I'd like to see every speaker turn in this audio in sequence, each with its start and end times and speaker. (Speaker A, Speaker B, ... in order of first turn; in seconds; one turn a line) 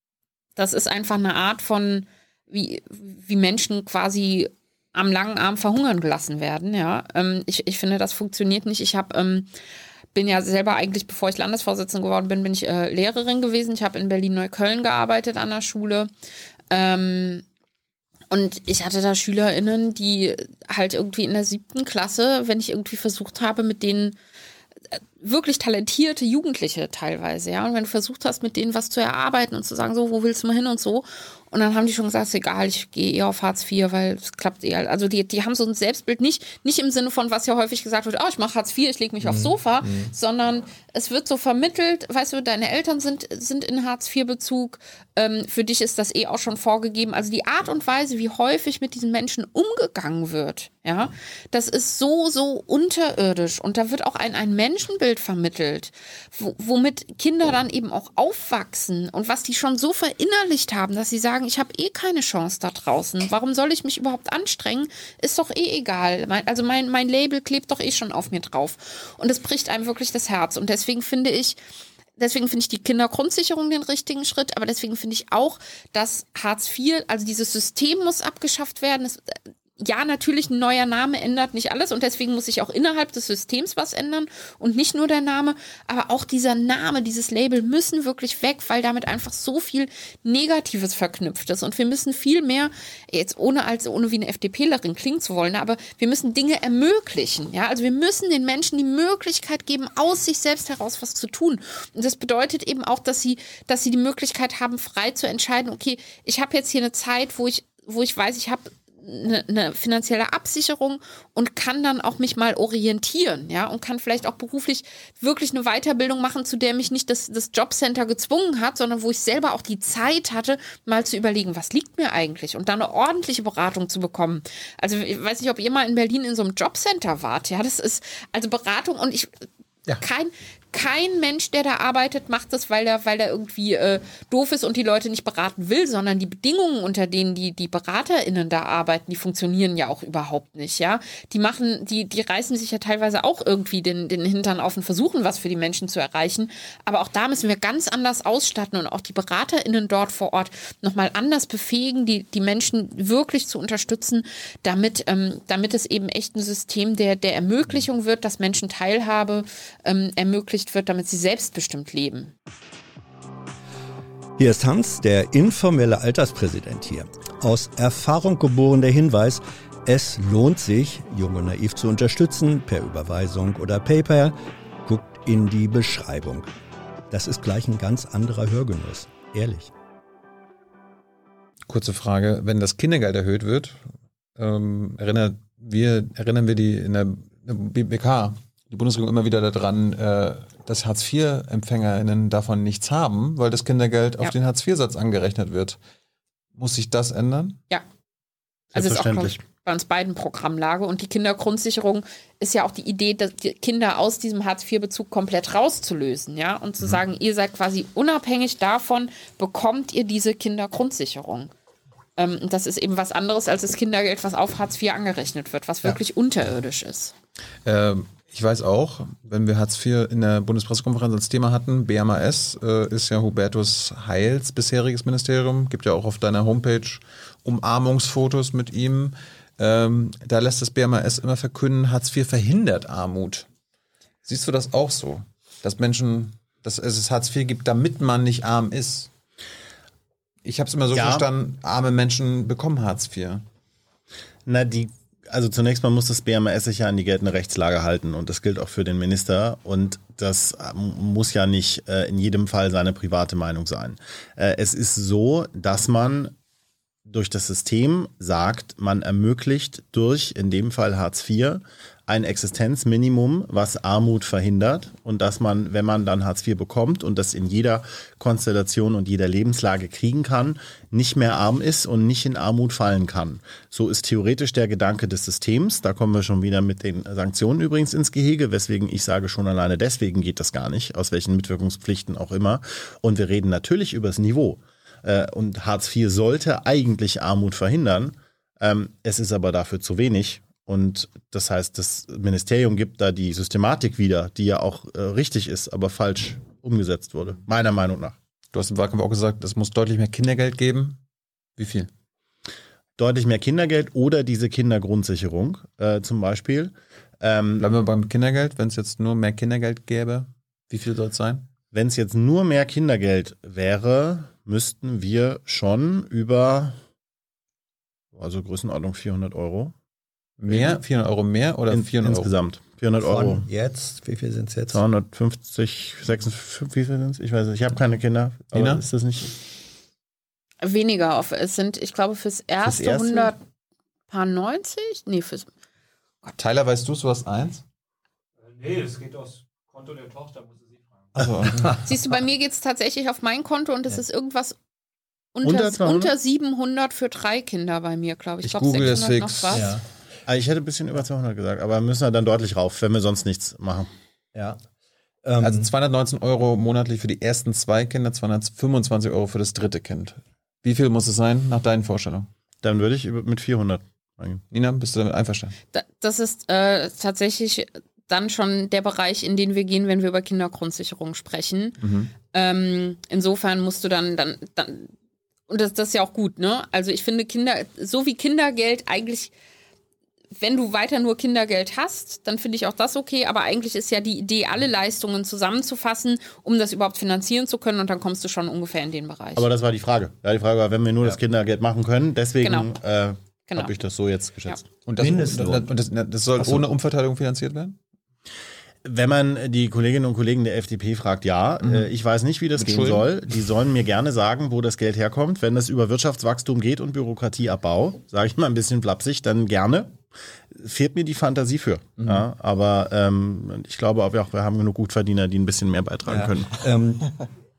Speaker A: 0.6-9.5
Speaker A: 10.1-16.1
Speaker A: 16.7-17.4
Speaker A: 18.3-24.2
Speaker A: 24.9-71.6
Speaker B: 39.2-40.1
Speaker A: 72.2-129.5
Speaker A: 130.0-162.3
Speaker B: 164.4-176.5
Speaker B: 177.1-179.7
Speaker C: 181.7-183.8
Speaker C: 184.4-195.8
Speaker C: 196.6-197.6
Speaker D: 198.7-199.4
Speaker A: 198.8-211.5
Speaker A: 212.2-217.1
Speaker C: 217.7-233.5
Speaker C: 234.2-239.1
Speaker C: 240.4-243.4
Speaker D: 240.9-241.3
Speaker D: 244.5-256.3
Speaker D: 257.1-298.2
Speaker C: 298.5-301.0
Speaker C: 301.6-301.9
Speaker D: 303.0-307.6
Speaker C: 307.6-311.5
Speaker D: 311.7-316.8
Speaker D: 318.1-319.7
Speaker C: 320.4-322.3
Speaker D: 320.5-320.8
Speaker D: 321.7-323.5
Speaker B: 323.0-324.8
Speaker D: 324.7-329.4
Speaker C: 328.5-328.8
Speaker A: 330.6-333.4
Speaker D: 332.6-333.3
Speaker A: 334.1-335.5
Speaker C: 336.2-337.6
Speaker E: 338.5-341.2
Speaker C: 341.2-341.7
Speaker B: 341.4-341.8
Speaker A: 341.8-344.6
Speaker A: 345.4-349.7
Speaker D: 345.4-346.1
Speaker C: 348.4-349.7
Speaker B: 349.5-349.8
Speaker D: 350.3-353.9
Speaker B: 354.3-354.6
Speaker B: 355.2-355.7
Speaker C: 355.4-362.3
Speaker D: 362.6-364.4
Speaker C: 364.5-365.6
Speaker A: 365.7-371.8
Speaker C: 371.8-372.1
Speaker A: 372.3-374.9
Speaker A: 375.5-379.3
Speaker A: 380.4-389.5
Speaker D: 389.4-394.6
Speaker A: 392.4-392.7
Speaker A: 393.5-393.7
Speaker C: 394.9-397.8
Speaker B: 395.0-395.7
Speaker D: 398.9-410.0
Speaker C: 401.6-401.9
Speaker C: 402.6-403.1
Speaker D: 410.6-416.6
Speaker B: 416.1-417.1